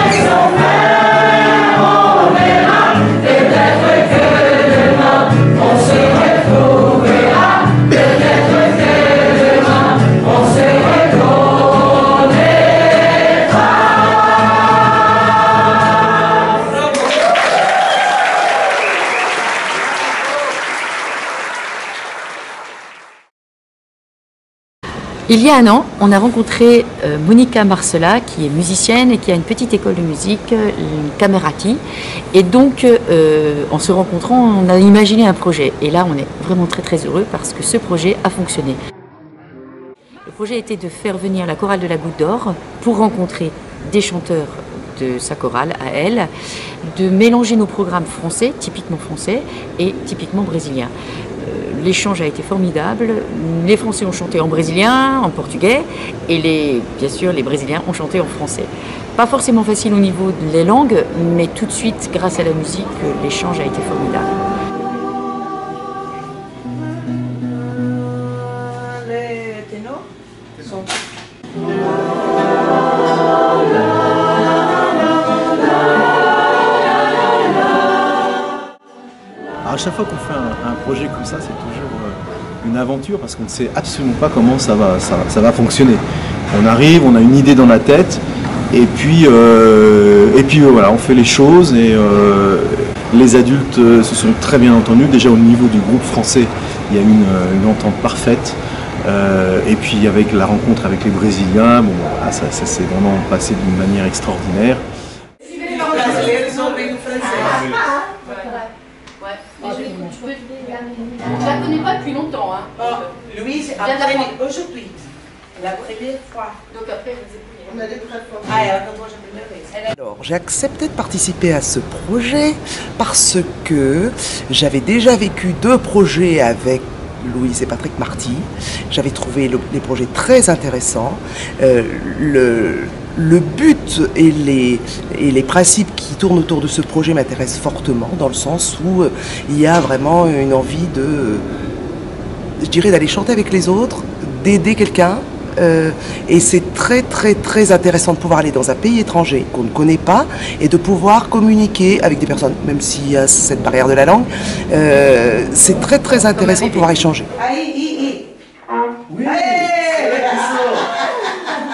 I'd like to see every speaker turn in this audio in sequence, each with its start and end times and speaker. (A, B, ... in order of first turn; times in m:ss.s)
0:25.3-0:31.8 A
0:32.3-0:38.8 A
0:40.2-0:46.3 A
0:46.8-1:04.3 A
1:08.5-1:10.0 B
1:10.6-1:10.9 B
1:19.6-1:44.8 C
1:45.4-1:47.8 B
1:47.3-1:48.7 D
1:49.2-1:53.0 D
1:49.6-1:49.9 B
1:52.8-1:55.0 B
1:53.8-1:54.3 D
1:55.6-1:56.6 B
1:56.7-1:58.2 D
1:58.3-1:59.8 B
1:59.9-2:21.6 E
2:22.6-2:37.3 E
2:37.4-2:38.3 B
2:39.1-2:41.4 B